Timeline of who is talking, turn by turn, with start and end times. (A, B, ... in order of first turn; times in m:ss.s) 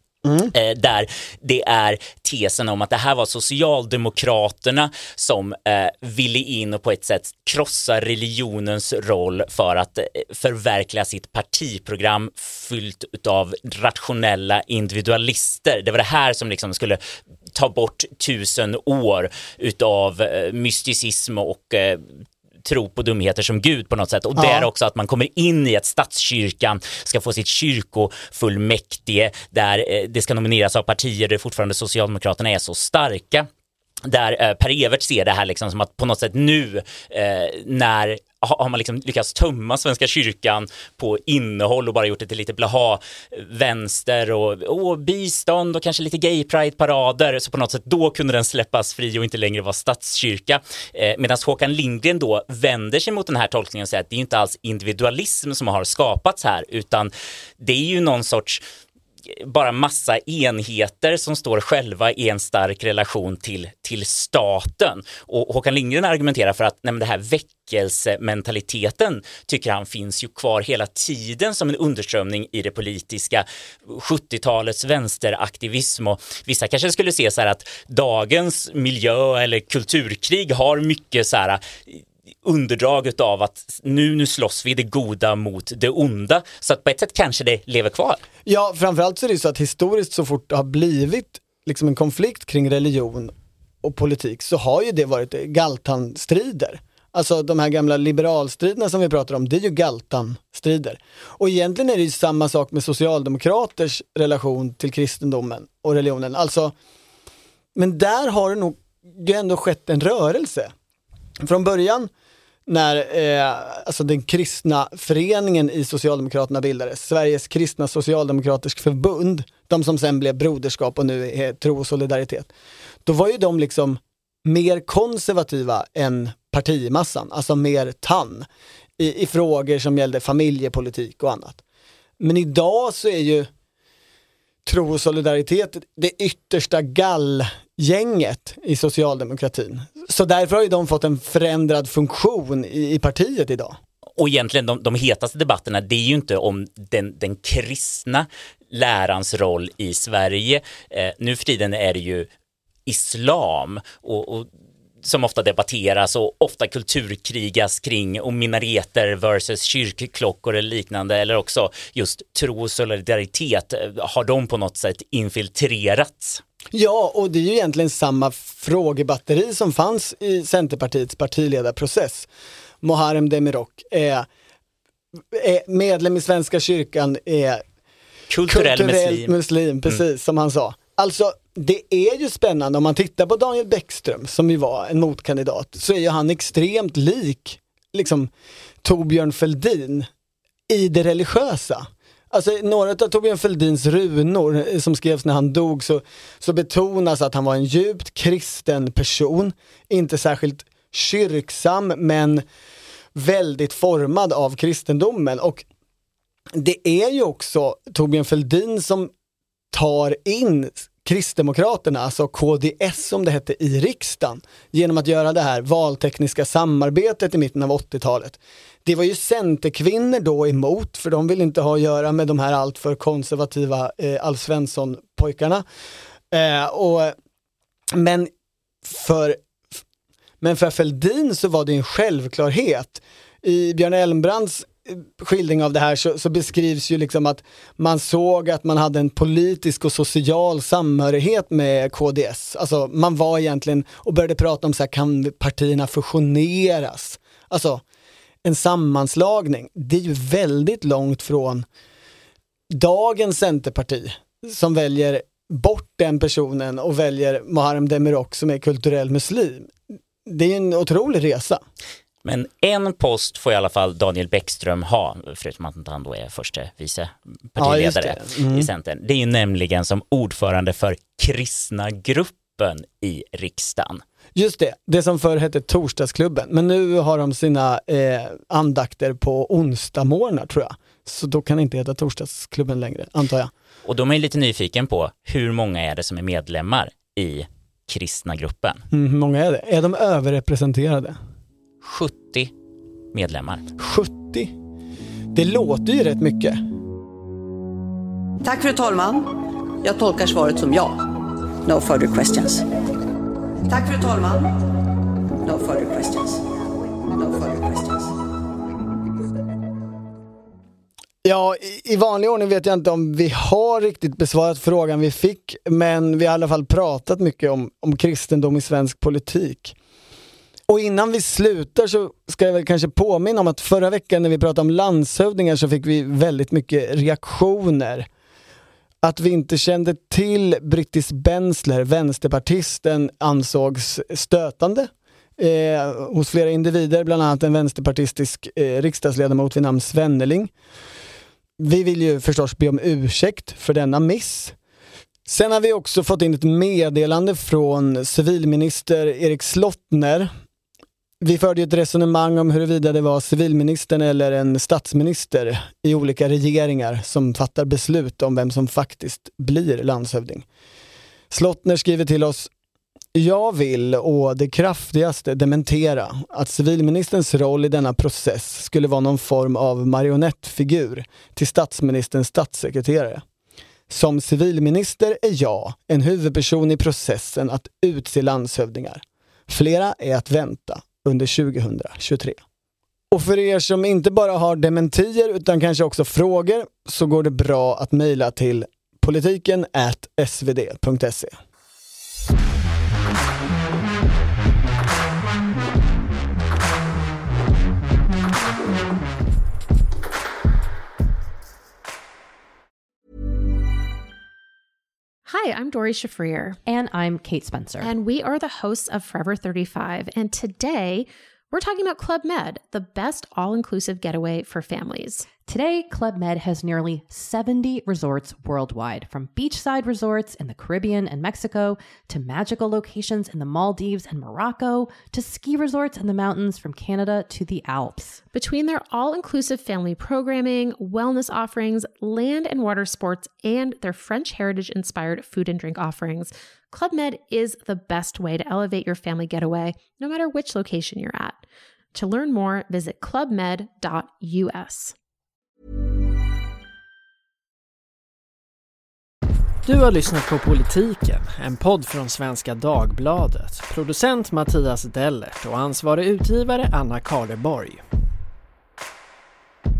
0:00.2-0:00.5 A
0:00.5-0:17.0 B
0:17.5-0:22.1 B
0:22.6-0:33.5 B
0:24.4-0:24.7 A
0:34.0-0:58.6 B
0:59.4-1:28.2 B
1:28.4-1:46.7 A
1:47.7-1:50.7 A
1:51.4-1:52.1 A
1:52.7-2:02.5 A
2:03.0-2:08.4 A
2:09.0-2:11.6 A
2:12.2-2:13.5 A
2:14.6-2:23.8 A
2:24.2-2:32.3 B
2:32.9-2:34.5 B
2:35.0-2:46.4 B
2:46.7-2:52.3 A
2:52.8-2:54.3 A
2:55.3-2:57.6 A
2:58.3-2:59.3 B
2:58.5-3:08.3 A
3:08.8-3:10.1 A
3:10.7-3:22.4 A
3:23.1-3:25.6 A
3:26.5-3:29.1 A
3:29.7-3:45.6 A
3:46.3-3:47.1 A
3:47.9-3:48.3 A
3:48.8-3:49.4 A
3:50.4-4:07.8 A
4:08.4-4:11.6 A
4:12.7-4:21.6 A
4:22.2-4:34.0 B
4:27.6-4:28.7 A
4:34.3-4:43.5 A
4:43.8-4:48.8 B
4:48.9-4:51.2 A
4:51.8-4:52.5 B
4:53.1-4:53.6 B
4:53.8-4:54.5 A
4:55.3-4:56.6 A
4:58.4-4:59.3 C
4:59.8-5:01.0 C
5:01.6-5:02.6 C
5:03.7-5:04.5 C
5:05.4-5:06.4 C
5:07.2-5:08.1 C
5:11.2-5:19.7 A
5:20.7-5:28.0 A
5:29.0-5:40.5 A
5:41.6-5:44.5 A
5:45.2-5:50.3 A
5:51.2-6:00.4 A
6:01.3-6:02.5 A
6:03.1-6:13.2 A
6:13.9-6:22.4 A
6:23.1-6:31.3 A
6:45.3-6:46.6 D
6:46.6-6:47.9 E
6:47.8-6:55.4 D
6:55.4-7:08.2 E
7:08.3-7:21.4 D
7:21.9-7:24.9 D
7:29.6-7:37.8 F